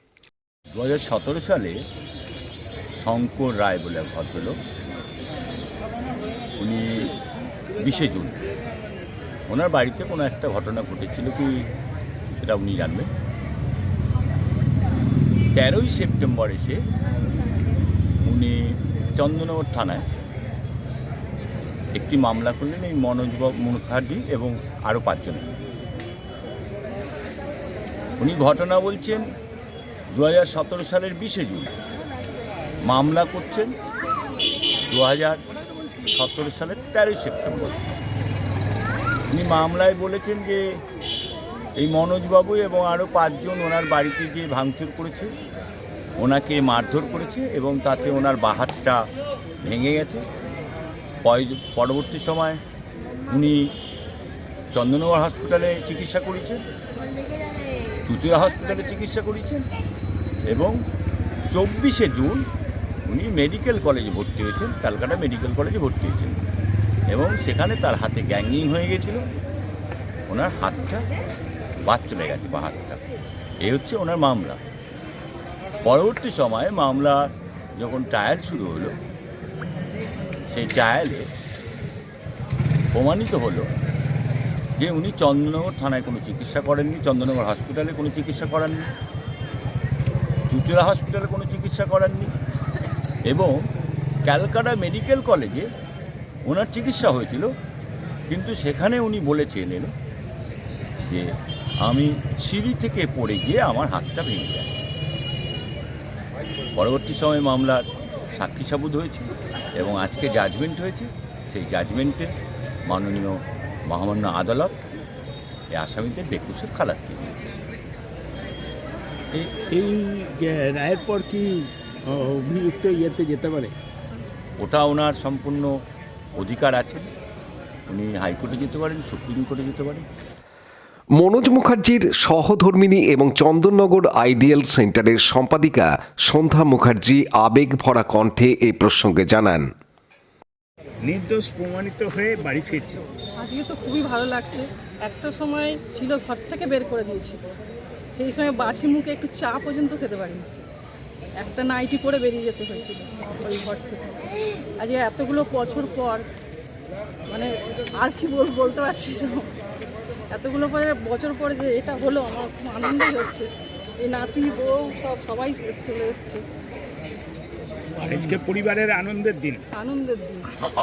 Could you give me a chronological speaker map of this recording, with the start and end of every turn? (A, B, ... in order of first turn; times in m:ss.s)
0:00.7-0:01.8 A
0:03.0-0:04.6 A
0:06.6-0:07.1 A
0:07.8-0:08.4 A
0:09.5-0:11.7 A
0:12.4-0:13.1 A
0:15.5-0:16.8 A
0:18.2-0:20.0 A
0:21.9-0:25.5 A
0:28.2-0:29.3 A
0:30.1-0:31.7 A
0:32.8-0:33.7 A
0:34.9-0:35.4 A
0:36.1-0:37.8 A
0:39.3-0:40.6 A
0:41.8-0:45.3 A
0:46.2-0:49.0 A
0:49.6-0:50.2 A
0:51.2-0:52.6 A
0:53.3-0:53.7 A
0:54.7-0:56.6 A
0:58.0-0:59.6 A
1:00.5-1:00.8 A
1:01.5-1:02.4 A
1:03.0-1:06.4 A
1:07.1-1:09.3 A
1:10.3-1:11.0 A
1:11.8-1:13.0 A
1:13.6-1:14.6 A
1:15.8-1:19.0 A
1:20.5-1:21.3 A
1:22.9-1:23.7 A
1:24.8-1:28.9 A
1:30.5-1:32.3 A
1:33.3-1:33.5 A
1:34.2-1:35.7 A
1:36.4-1:37.5 A
1:38.3-1:39.9 A
1:41.8-1:44.8 A
1:46.7-1:52.3 A
1:52.8-1:54.8 A
1:55.7-1:57.4 A
1:59.3-2:03.7 B
2:04.6-2:05.7 A
2:06.4-2:07.1 A
2:07.9-2:10.0 A
2:11.2-2:19.7 C
2:21.0-2:23.0 B
2:23.4-2:27.4 D
2:28.1-2:30.4 D
2:31.4-2:34.2 D
2:34.8-2:36.3 D
2:37.3-2:39.5 D
2:40.3-2:43.5 D
2:44.0-2:46.4 D
2:47.9-2:49.6 B
2:49.7-2:50.5 D